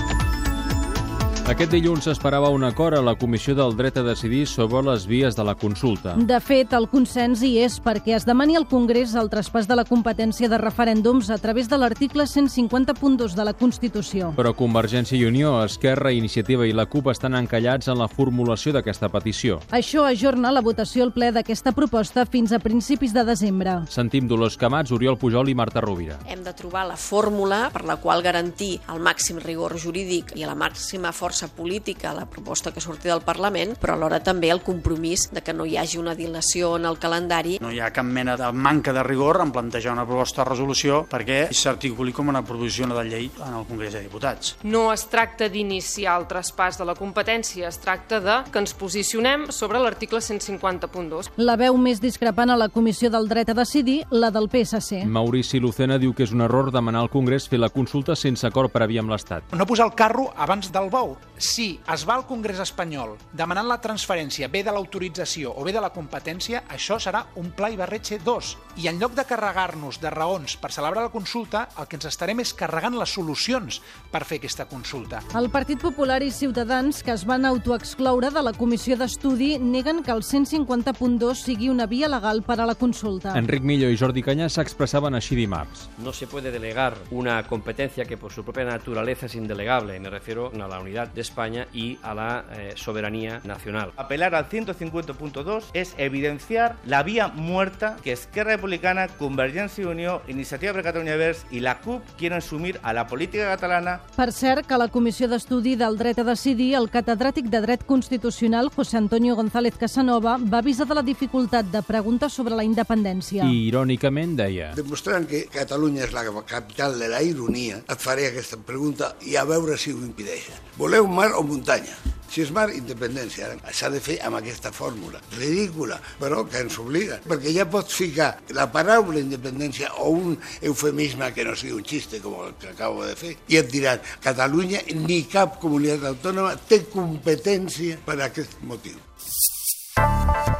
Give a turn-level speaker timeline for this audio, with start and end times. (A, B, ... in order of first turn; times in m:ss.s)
0:01.4-0:06.2 A
0:06.1-0:14.4 B
0:14.4-0:19.6 A
0:19.7-0:23.9 B
0:23.9-0:26.2 A
0:26.2-0:37.6 C
0:37.6-0:44.4 D
0:44.6-0:51.3 E
0:51.4-0:55.1 B
0:55.1-0:59.4 A
0:59.5-1:15.2 F
1:15.3-1:23.4 B
1:23.4-1:25.8 A
1:26.0-1:33.9 G
1:34.0-1:44.0 H
1:44.2-1:53.6 B
1:53.4-1:54.8 A
1:54.7-2:19.0 I